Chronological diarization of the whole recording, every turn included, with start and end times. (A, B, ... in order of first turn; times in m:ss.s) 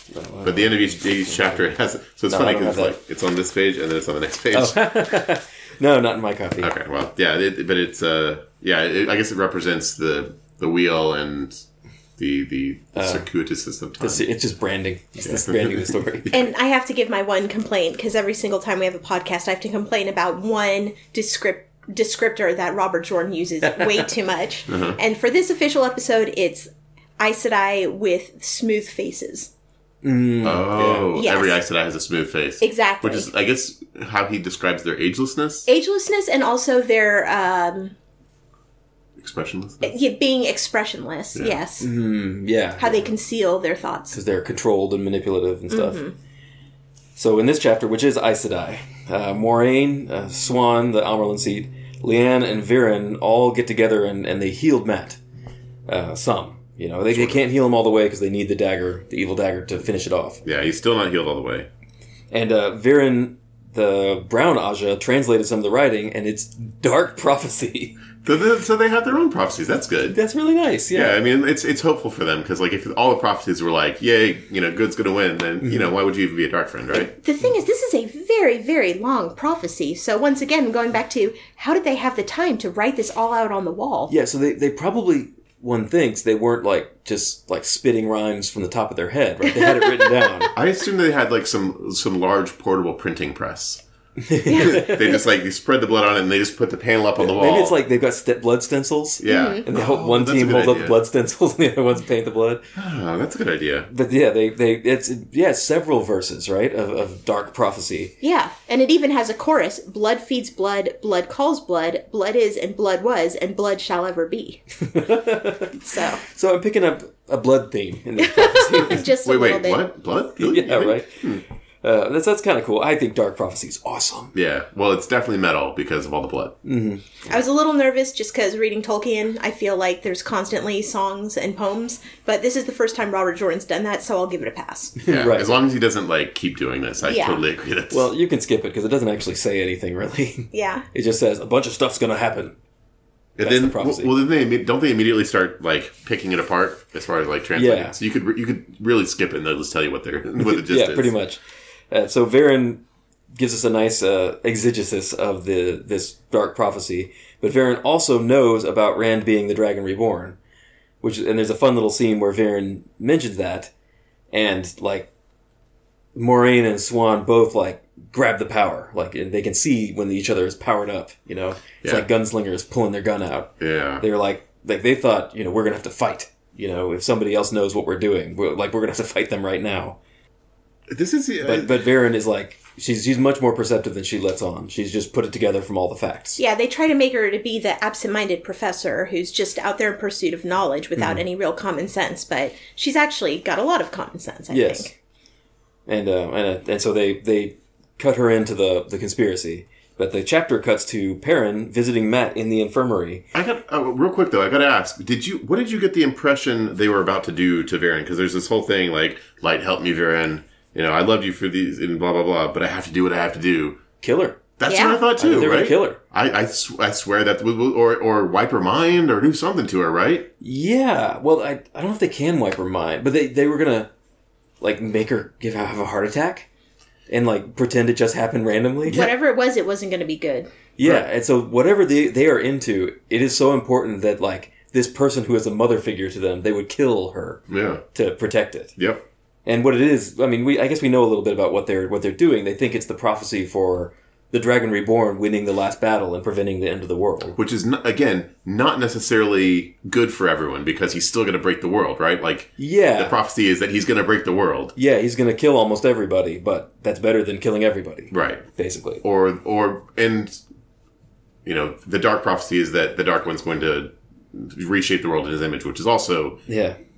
0:00.1-0:01.7 A
0:00.4-0:05.2 B
0:02.3-0:03.0 A
0:04.5-0:06.7 A
0:06.6-0:11.6 B
0:12.2-0:14.3 B
0:13.0-0:13.3 A
0:14.0-0:16.4 A
0:15.2-0:16.3 B
0:16.3-0:29.5 C
0:23.6-0:24.1 A
0:24.7-0:25.0 B
0:30.0-0:31.1 A
0:30.4-0:35.7 B
0:31.1-0:31.6 C
0:32.6-0:33.3 C
0:35.7-0:38.0 C
0:39.2-0:39.9 B
0:39.8-0:41.9 C
0:41.4-0:41.6 B
0:41.8-0:43.1 A
0:42.8-0:44.2 C
0:44.1-0:46.0 A
0:45.7-0:46.1 C
0:47.2-0:55.2 A
0:55.9-1:00.4 A
0:57.1-0:57.4 B
1:00.4-1:01.7 B
1:02.3-1:08.0 A
1:08.2-1:10.2 B
1:10.1-1:11.2 A
1:10.9-1:17.1 B
1:15.6-1:15.9 A
1:17.1-1:24.1 C
1:24.1-1:30.5 A
1:29.5-1:30.4 C
1:30.5-1:33.8 B
1:34.2-1:35.1 A
1:34.5-1:35.2 C
1:34.5-1:37.8 B
1:37.2-1:42.6 A
1:39.2-1:41.0 B
1:39.2-1:39.6 C
1:42.8-1:43.9 B
1:43.9-1:48.1 A
1:48.2-1:54.6 C
1:54.8-1:59.0 A
1:55.8-1:56.2 C
1:58.2-1:59.9 C
1:59.2-2:01.4 B
2:00.4-2:01.3 A
2:01.8-2:04.3 A
2:04.3-2:06.6 B
2:06.6-2:07.0 A
2:07.3-2:15.0 C
2:15.0-2:15.5 A
2:15.1-2:18.1 B
2:17.0-2:17.4 C
2:17.9-2:22.6 A
2:20.5-2:20.9 C
2:23.4-2:31.1 B
2:23.4-2:24.1 A
2:27.6-2:28.0 A
2:30.4-2:32.8 A
2:33.4-2:40.4 A
2:41.0-2:43.7 A
2:44.3-2:45.1 A
2:46.2-3:00.0 A
2:53.6-2:54.0 B
3:00.9-3:01.8 B
3:01.4-3:06.4 A
3:06.4-3:14.9 C
3:11.0-3:11.2 A
3:14.5-3:15.0 A
3:15.9-3:23.2 A
3:23.3-3:33.8 B
3:34.0-3:34.4 A
3:34.6-3:40.3 B
3:34.7-3:35.0 C
3:35.2-3:36.0 A
3:40.4-3:43.9 A
3:44.6-3:46.5 A
3:47.1-3:49.1 A
3:48.9-3:50.5 C
3:50.8-3:57.4 A
3:50.8-3:51.1 B
3:57.5-3:57.8 B
3:57.9-3:58.8 A
3:58.8-3:59.0 B
3:59.5-4:07.4 A
4:07.4-4:14.8 B
4:12.6-4:13.2 A
4:14.8-4:19.0 A
4:18.1-4:18.5 B
4:19.0-4:20.4 B
4:21.4-4:26.4 B
4:26.5-4:26.8 A